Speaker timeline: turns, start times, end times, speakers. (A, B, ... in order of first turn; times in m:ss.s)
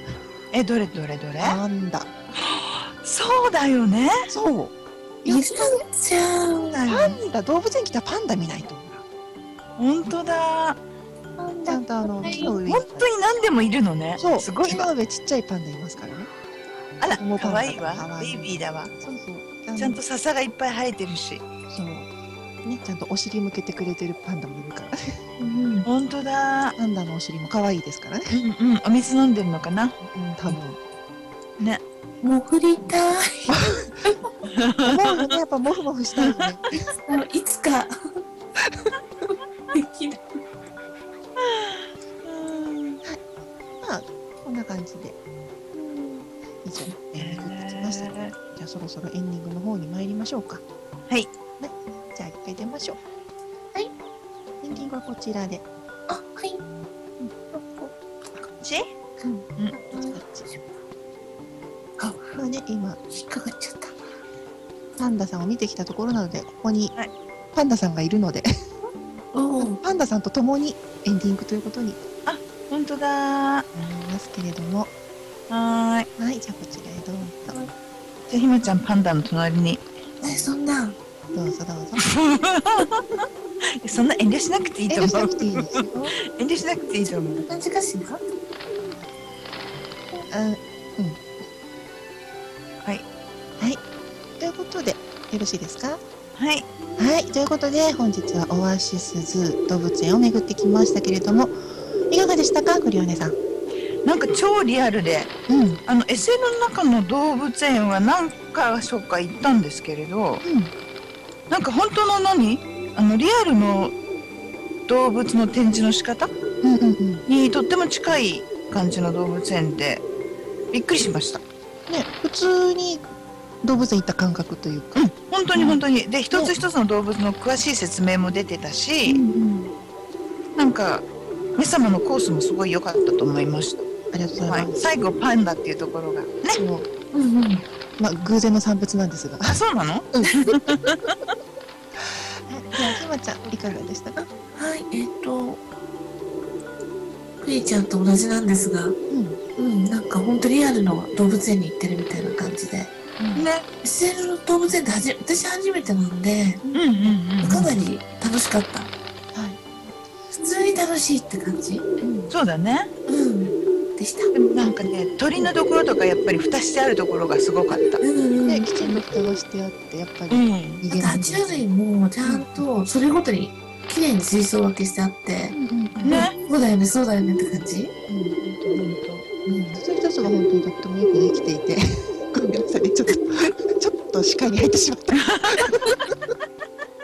0:00.5-0:01.6 A
0:01.4-0:02.1 B
0:02.4-0:04.3 A
0:04.3-0:05.8 B
0:05.3-0:07.2 C
0:06.9-0:09.0 B
0:09.8-0:10.8 A
0:11.4-0:12.6 C
0:11.7-0:13.1 B
0:12.7-0:14.9 A
0:14.2-0:16.3 B
0:17.0-0:18.9 A
0:17.2-0:20.0 B
0:19.8-0:21.4 A
0:21.7-0:22.1 B
0:22.6-0:25.2 B
0:25.4-0:25.9 C
0:25.8-0:26.8 A
0:26.8-0:28.3 B
0:28.3-0:30.0 A
0:30.1-0:30.8 B
0:32.2-0:34.2 C
0:33.5-0:33.9 B
0:34.6-0:35.4 A
0:34.8-0:36.8 B
0:36.2-0:36.5 A
0:37.1-0:37.9 C
0:39.2-0:40.4 C
0:41.4-0:43.0 A
0:43.8-0:45.2 B
0:45.7-0:46.3 C
0:46.6-0:50.6 B
0:47.2-0:48.3 A
0:51.6-0:53.0 B
0:54.6-0:55.6 B
0:56.1-0:56.6 C
0:57.5-0:57.9 C
0:58.5-0:58.9 A
0:59.2-1:00.8 C
0:59.8-1:00.5 B
1:02.0-1:02.3 C
1:02.3-1:03.0 B
1:03.1-1:04.0 C
1:05.0-1:06.9 B
1:07.5-1:08.5 B
1:09.3-1:09.8 C
1:09.6-1:12.0 B
1:12.3-1:13.7 A
1:13.7-1:14.9 B
1:15.5-1:16.1 A
1:16.2-1:17.6 B
1:18.3-1:19.8 A
1:20.2-1:21.0 C
1:21.3-1:22.0 B
1:22.0-1:23.3 A
1:23.8-1:27.5 A
1:24.9-1:26.2 B
1:27.4-1:28.2 C
1:30.3-1:31.2 B
1:34.4-1:36.0 B
1:36.4-1:36.7 A
1:37.0-1:43.4 B
1:44.0-1:45.3 A
1:45.5-1:45.8 B
1:45.9-1:50.4 A
1:50.4-1:50.7 B
1:51.5-1:54.0 A
1:54.9-1:56.3 A
1:56.6-1:57.2 B
1:57.3-2:00.0 A
2:00.7-2:01.4 A
2:01.9-2:03.0 B
2:03.6-2:05.0 B
2:05.0-2:09.2 A
2:05.5-2:05.8 B
2:09.1-2:09.7 B
2:10.6-2:13.9 A
2:14.1-2:14.9 B
2:14.4-2:16.6 A
2:16.5-2:16.9 B
2:17.1-2:17.6 C
2:18.0-2:19.6 B
2:19.4-2:21.2 A
2:22.0-2:24.3 B
2:24.6-2:25.6 C
2:27.4-2:29.0 C
2:29.1-2:29.4 B
2:29.6-2:33.0 C
2:33.2-2:33.7 A
2:33.8-2:36.6 C
2:36.6-2:37.2 B
2:36.7-2:37.7 A
2:37.4-2:38.9 C
2:39.3-2:39.6 B
2:40.3-2:41.9 C
2:42.0-2:42.3 B
2:42.3-2:42.9 A
2:43.1-2:44.3 C
2:44.3-2:48.0 A
2:48.0-2:48.7 C
2:48.4-2:51.7 B
2:50.3-2:50.8 A
2:50.9-2:57.9 C
2:52.2-2:52.6 B
2:55.5-2:56.2 B
2:56.0-2:56.4 A
2:58.1-2:58.4 B
2:58.4-2:59.3 A
2:59.5-2:59.8 C
2:59.7-3:05.8 B
3:05.2-3:05.9 A